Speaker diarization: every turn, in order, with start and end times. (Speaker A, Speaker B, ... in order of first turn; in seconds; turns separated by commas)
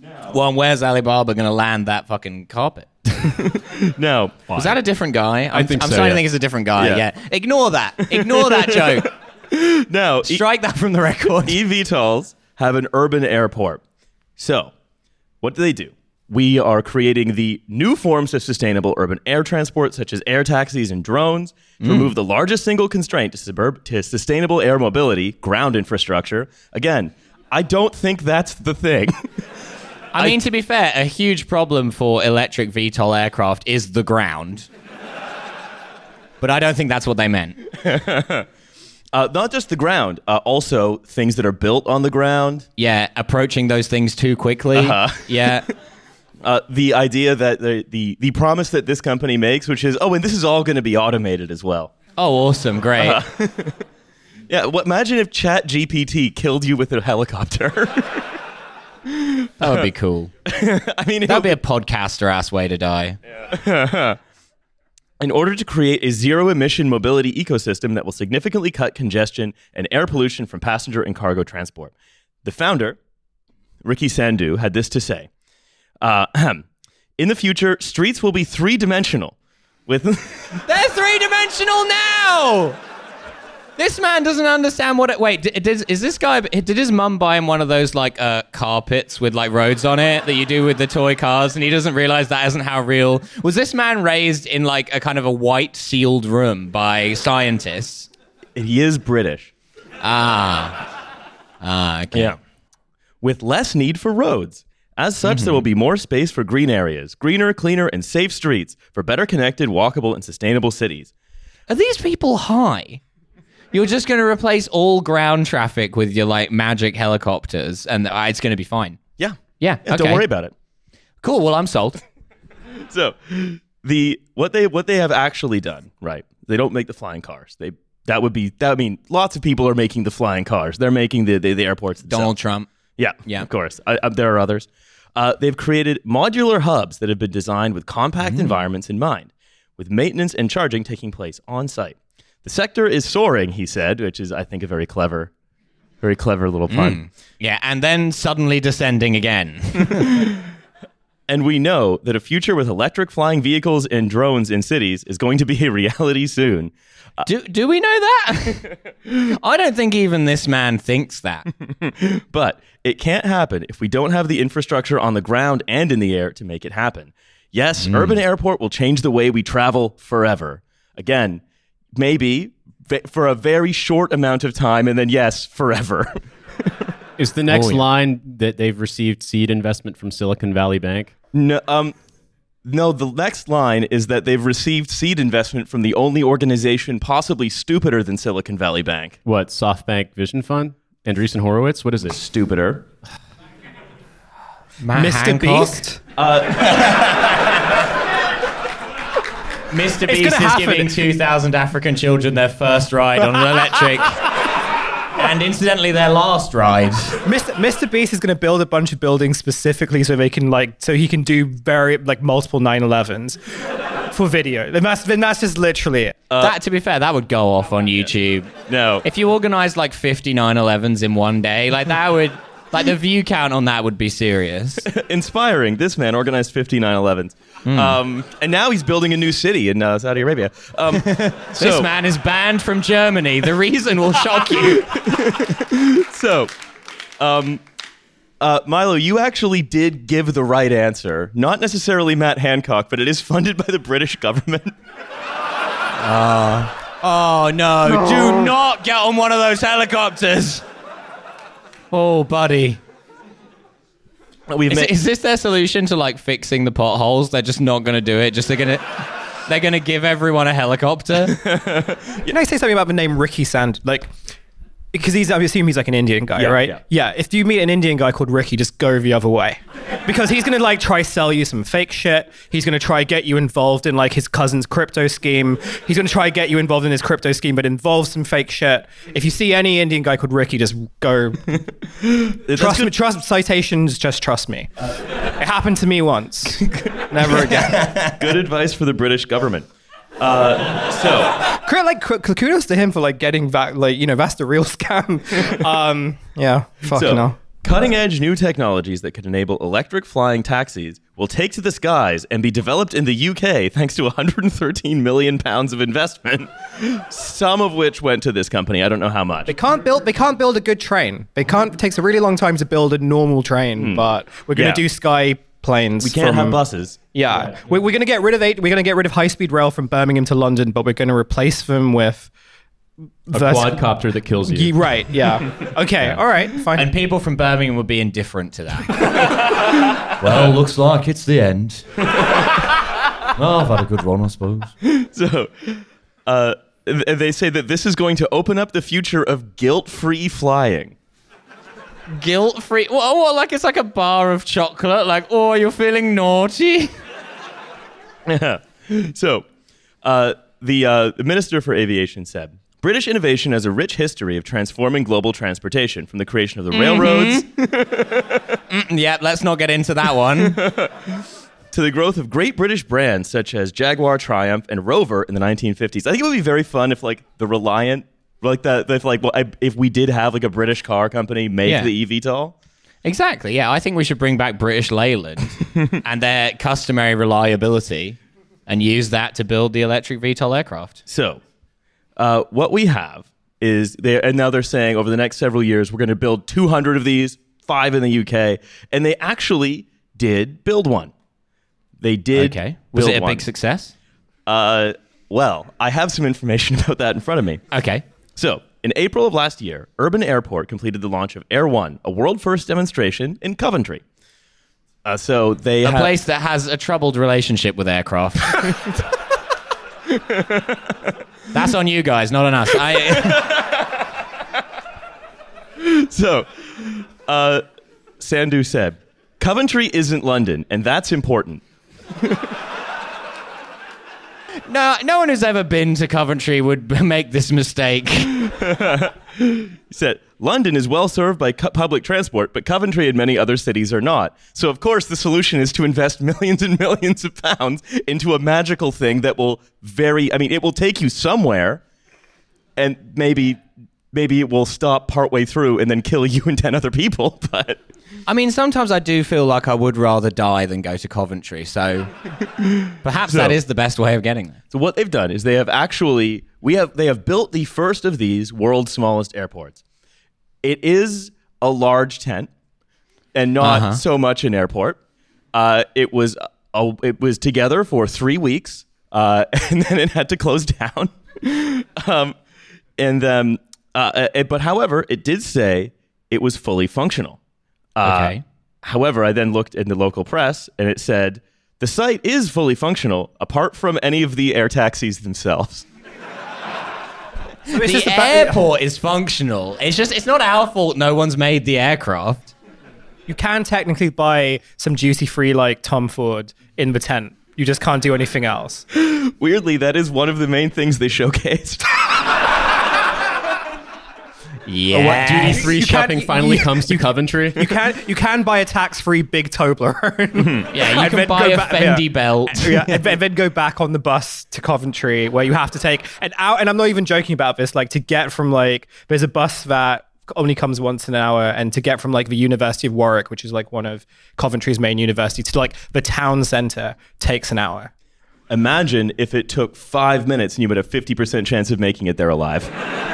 Speaker A: 0.3-2.9, Speaker B: 3.2-4.5, Speaker C: 4.5-4.8, Speaker A: 4.5-9.1, Speaker C: 5.5-6.2, Speaker B: 6.8-7.0, Speaker B: 8.0-10.4, Speaker A: 10.2-11.6, Speaker B: 11.4-13.8, Speaker B: 14.4-14.7, Speaker B: 15.4-29.1, Speaker A: 21.8-22.1, Speaker A: 30.1-34.7, Speaker A: 36.4-37.6, Speaker B: 37.7-38.5, Speaker B: 39.1-42.7, Speaker A: 42.8-45.6, Speaker B: 44.7-45.5, Speaker B: 46.4-51.9, Speaker A: 52.2-53.2, Speaker B: 53.0-53.8, Speaker B: 54.5-58.3, Speaker B: 59.1-59.8, Speaker A: 59.6-60.3, Speaker B: 60.5-61.6, Speaker A: 61.3-63.2, Speaker B: 63.5-64.2, Speaker B: 65.2-71.9, Speaker B: 72.4-73.0, Speaker B: 73.8-75.3, Speaker B: 76.0-76.7, Speaker B: 77.2-79.3, Speaker B: 79.9-80.6, Speaker A: 80.7-82.8, Speaker A: 83.8-98.1, Speaker B: 98.5-99.5, Speaker A: 100.0-100.8, Speaker A: 101.6-102.3, Speaker B: 103.2-111.1, Speaker A: 105.2-105.6, Speaker A: 111.7-113.0, Speaker A: 113.7-119.0, Speaker B: 119.2-120.5, Speaker A: 119.6-120.2, Speaker A: 121.2-122.0, Speaker B: 122.9-132.3, Speaker A: 132.1-132.7, Speaker B: 133.0-145.3, Speaker A: 138.2-138.5, Speaker B: 146.0-147.0, Speaker A: 146.7-150.2, Speaker B: 150.1-150.3, Speaker B: 151.3-157.2, Speaker A: 157.2-161.5, Speaker B: 161.7-171.4, Speaker A: 167.8-168.2, Speaker B: 171.9-176.7, Speaker C: 177.2-181.1, Speaker B: 177.5-177.8, Speaker B: 181.3-181.9, Speaker B: 182.6-189.2, Speaker C: 189.2-192.2, Speaker B: 192.1-192.8, Speaker A: 194.8-195.8, Speaker D: 194.9-196.0, Speaker B: 196.2-197.0, Speaker A: 196.8-197.3, Speaker A: 199.7-204.3, Speaker D: 200.0-201.0, Speaker A: 205.2-207.2, Speaker D: 207.2-213.4, Speaker D: 214.1-216.2, Speaker B: 216.3-216.6, Speaker A: 216.4-218.5, Speaker B: 218.7-219.0, Speaker A: 219.0-224.8, Speaker B: 224.8-231.9, Speaker A: 227.6-228.0, Speaker A: 230.9-234.9, Speaker B: 234.7-236.5, Speaker B: 237.2-237.6, Speaker B: 238.4-244.7, Speaker A: 246.0-250.6, Speaker A: 251.9-252.8, Speaker B: 254.5-254.9, Speaker A: 254.7-258.8, Speaker A: 259.5-261.4, Speaker B: 261.3-262.3, Speaker D: 262.3-264.1, Speaker D: 264.9-281.6, Speaker B: 266.4-266.8, Speaker B: 282.3-282.9, Speaker D: 282.5-284.7, Speaker D: 285.3-288.0, Speaker B: 287.8-289.7, Speaker B: 290.2-291.3, Speaker D: 291.6-297.4, Speaker B: 296.9-309.5, Speaker D: 309.5-316.6, Speaker B: 313.8-314.8, Speaker B: 316.0-317.0, Speaker D: 317.1-322.3, Speaker D: 323.3-323.8, Speaker C: 323.3-324.8, Speaker D: 324.5-326.9, Speaker A: 326.7-329.4, Speaker A: 330.2-332.4, Speaker A: 333.4-334.7, Speaker B: 334.8-340.9, Speaker A: 342.1-346.9, Speaker B: 348.2-349.4, Speaker B: 350.0-358.6, Speaker A: 356.7-357.4, Speaker A: 358.7-360.6, Speaker B: 360.4-372.5, Speaker A: 371.6-371.9, Speaker A: 373.0-381.0, Speaker B: 381.1-381.4, Speaker B: 382.2-391.1, Speaker B: 392.0-393.4, Speaker A: 392.3-393.9, Speaker B: 394.5-397.6, Speaker A: 397.7-398.0, Speaker B: 398.4-404.0, Speaker B: 405.0-406.1, Speaker A: 405.8-408.8, Speaker B: 410.1-411.0, Speaker A: 411.5-413.6, Speaker B: 413.1-413.9, Speaker B: 415.8-417.6, Speaker B: 418.2-421.6, Speaker A: 424.7-428.3, Speaker B: 428.4-441.8, Speaker B: 442.8-443.6, Speaker B: 444.1-447.8, Speaker A: 448.3-452.1, Speaker A: 453.0-454.6, Speaker B: 453.3-453.6, Speaker B: 454.7-459.8, Speaker B: 460.6-462.5, Speaker B: 463.3-465.0, Speaker A: 463.6-464.0, Speaker B: 465.5-472.3, Speaker B: 473.0-477.4, Speaker B: 477.9-485.9, Speaker A: 478.0-478.4, Speaker A: 487.7-492.5, Speaker D: 487.7-488.6, Speaker D: 493.3-498.8, Speaker B: 499.0-502.0, Speaker A: 504.6-505.7, Speaker C: 504.9-507.8, Speaker D: 505.1-527.9, Speaker B: 510.4-510.7, Speaker A: 510.7-513.0, Speaker B: 528.5-532.7